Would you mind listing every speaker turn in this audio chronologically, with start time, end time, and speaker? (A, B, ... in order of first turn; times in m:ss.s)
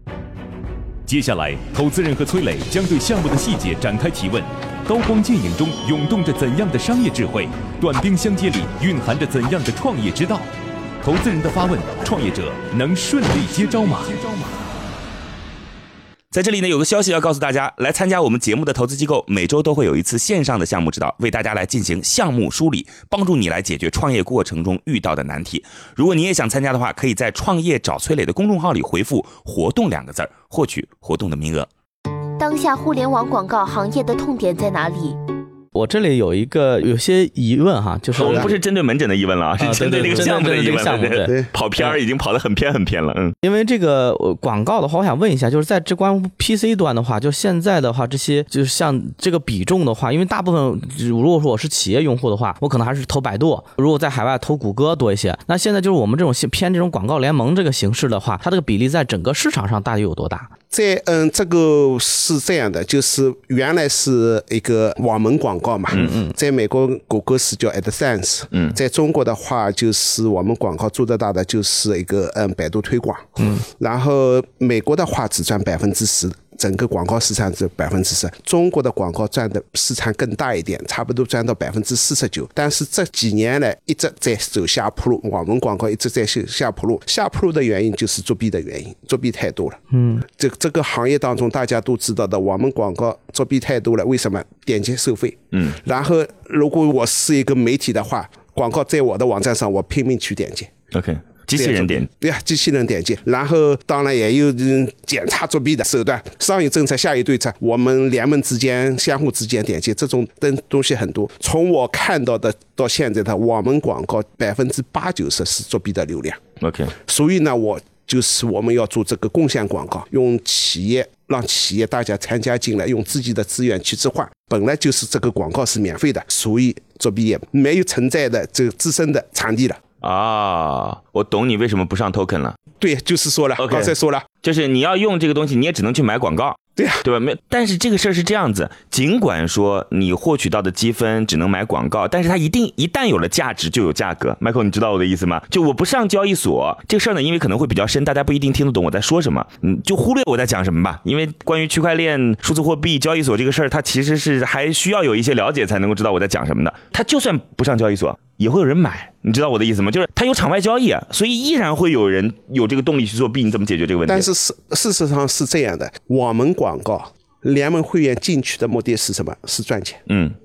0:01.1-0:10.5 A
0:11.0-0:14.3 A
0:16.3-0:31.7 B
0:32.4-0:35.2 C
0:35.7-0:38.5 D
0:38.2-0:43.4 B
0:38.2-0:38.5 E
0:39.6-0:42.0 D
0:43.4-1:00.5 D
1:00.7-1:40.7 E
1:06.0-1:06.3 D
1:29.9-1:30.2 D
1:40.9-1:42.1 B
1:41.6-1:56.4 E
1:56.6-1:56.9 B
1:56.9-2:09.8 E
2:10.0-2:12.6 B
2:12.8-2:14.3 E
2:13.6-2:44.3 B
2:16.8-2:17.0 E
2:44.1-2:50.0 E
2:50.1-2:50.4 B